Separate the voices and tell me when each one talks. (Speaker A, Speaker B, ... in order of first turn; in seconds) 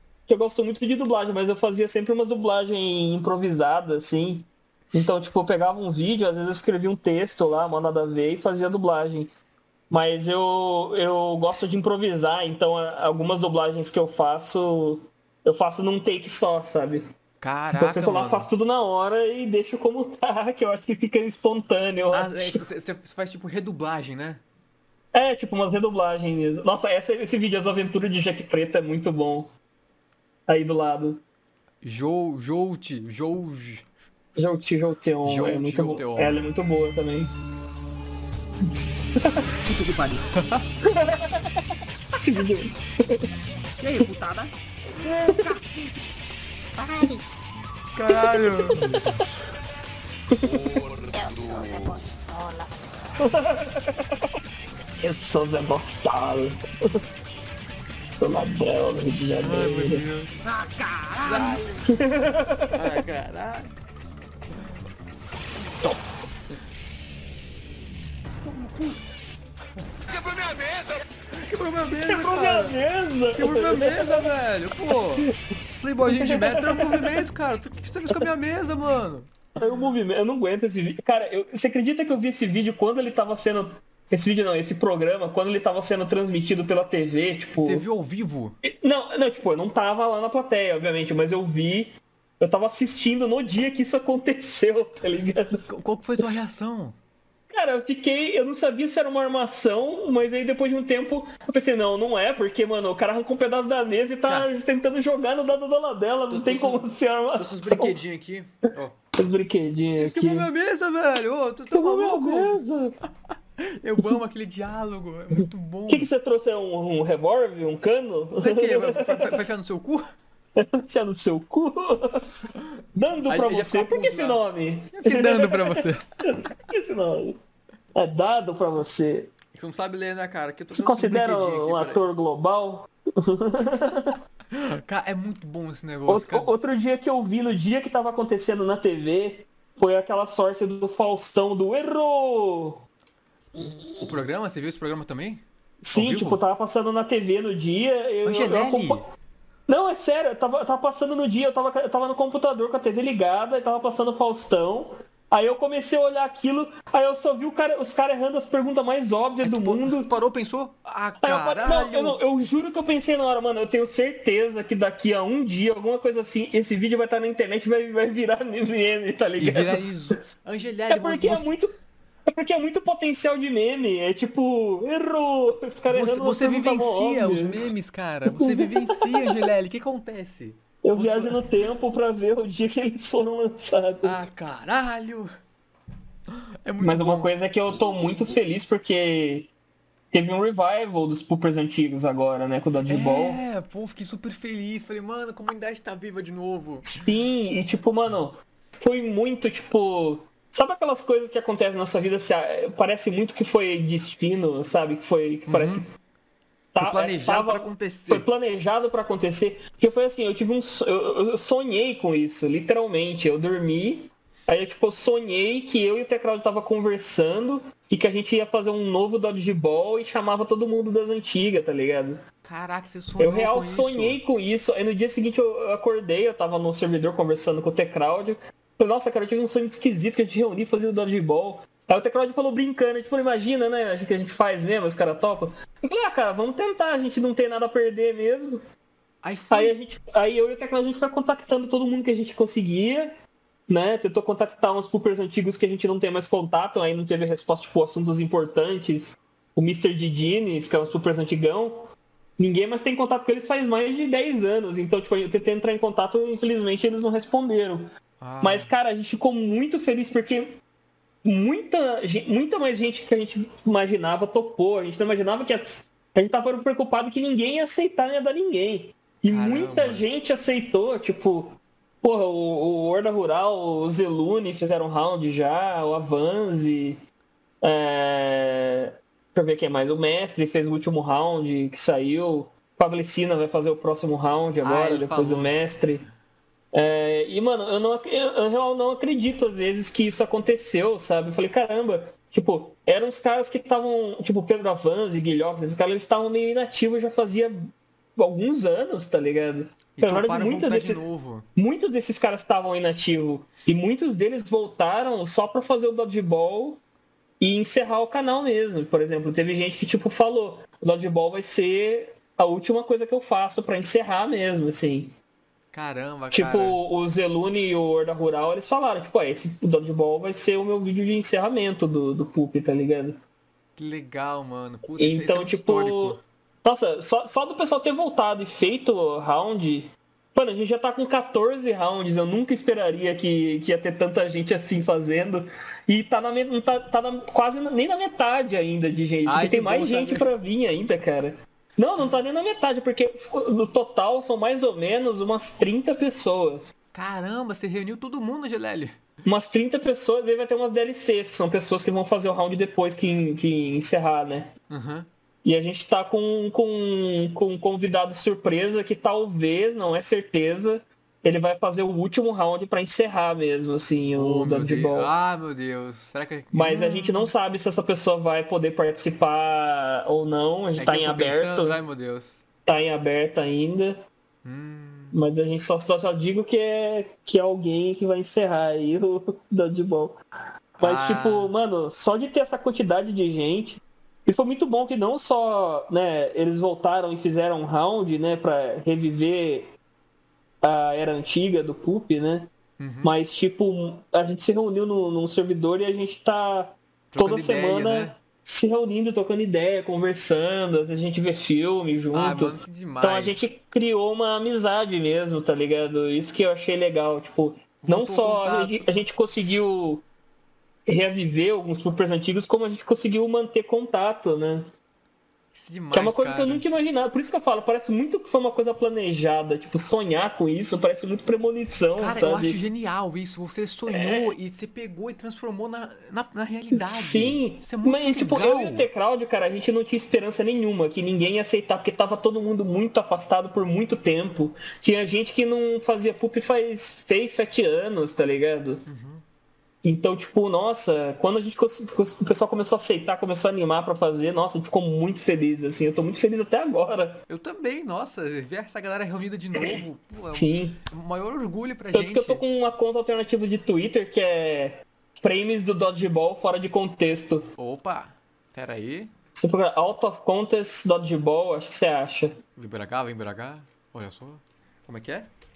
Speaker A: 0.3-9.3, 9.9-17.1, 17.7-22.6, 25.1-29.5, 30.5-31.2, 34.4-37.3, 40.8-41.6, 42.1-43.2, 45.1-45.4, 50.3-50.8, 53.2-54.1, 55.0-57.0, 58.1-60.0, 61.9-62.9, 72.0-74.3, 76.0-77.2, 79.6-87.8, 88.6-95.6, 97.5-108.0, 109.2-110.5, 111.7-112.9, 115.9-119.4, 120.5-122.3, 122.9-127.4, 127.9-129.3, 130.7-134.2, 136.1-142.8, 145.8-149.1, 149.7-160.1, 161.2-170.2, 170.9-171.7, 172.3-177.6, 178.2-179.5, 180.8-184.2, 186.8-189.5, 190.1-193.4, 196.8-205.9, 206.7-222.2, 223.2-238.6, 239.5-243.1, 243.7-260.6, 261.2-277.0, 277.6-286.0, 286.7-301.0, 301.6-306.8, 307.4-315.1, 316.3-323.2, 324.9-346.7, 349.2-354.5, 355.4-365.1, 366.5-371.8, 372.6-374.0, 375.1-380.2, 380.8-389.7, 390.6-392.5, 393.0-410.0, 410.9-414.7, 415.9-422.6, 423.9-424.3, 426.7-438.8, 439.8-447.2, 449.5-449.8, 450.3-450.8, 451.9-457.5, 459.3-462.4
Speaker B: 17.4-18.5, 22.1-24.4, 31.8-33.8, 35.2-36.4, 40.3-40.6, 47.9-49.2, 59.4-60.3, 61.2-61.9, 62.7-63.7, 65.8-66.0, 71.3-72.8, 73.3-75.3, 75.8-79.3, 87.6-88.6, 95.7-97.0, 106.3-109.0, 110.0-112.6, 113.6-116.1, 118.3-120.0, 123.3-126.1, 129.5-132.0, 134.5-136.5, 144.0-146.4, 148.2-149.0, 159.4-162.2, 169.4-171.5, 175.9-181.4, 184.0-185.3, 186.3-187.3, 192.9-197.0, 205.5-205.8, 206.8-208.3, 222.4-224.2, 239.2-239.8, 258.2-258.7, 269.3-270.1, 284.6-285.5, 299.9-301.4, 315.7-316.8, 323.8-326.2, 339.2-340.3, 346.9-348.9, 354.7-355.1, 364.1-367.3, 370.8-372.4, 374.4-375.2, 380.8-381.5, 392.8-393.1, 397.1-398.1, 402.1-403.5, 407.8-408.9, 415.5-416.6, 422.0-428.9, 438.9-439.2, 447.3-452.4, 457.6-459.1, 462.6-465.3
Speaker C: 39.6-40.2, 43.8-46.0, 46.8-47.2, 52.3-52.5, 60.4-61.6, 68.4-69.0
Speaker D: 50.4-51.9, 70.1-71.0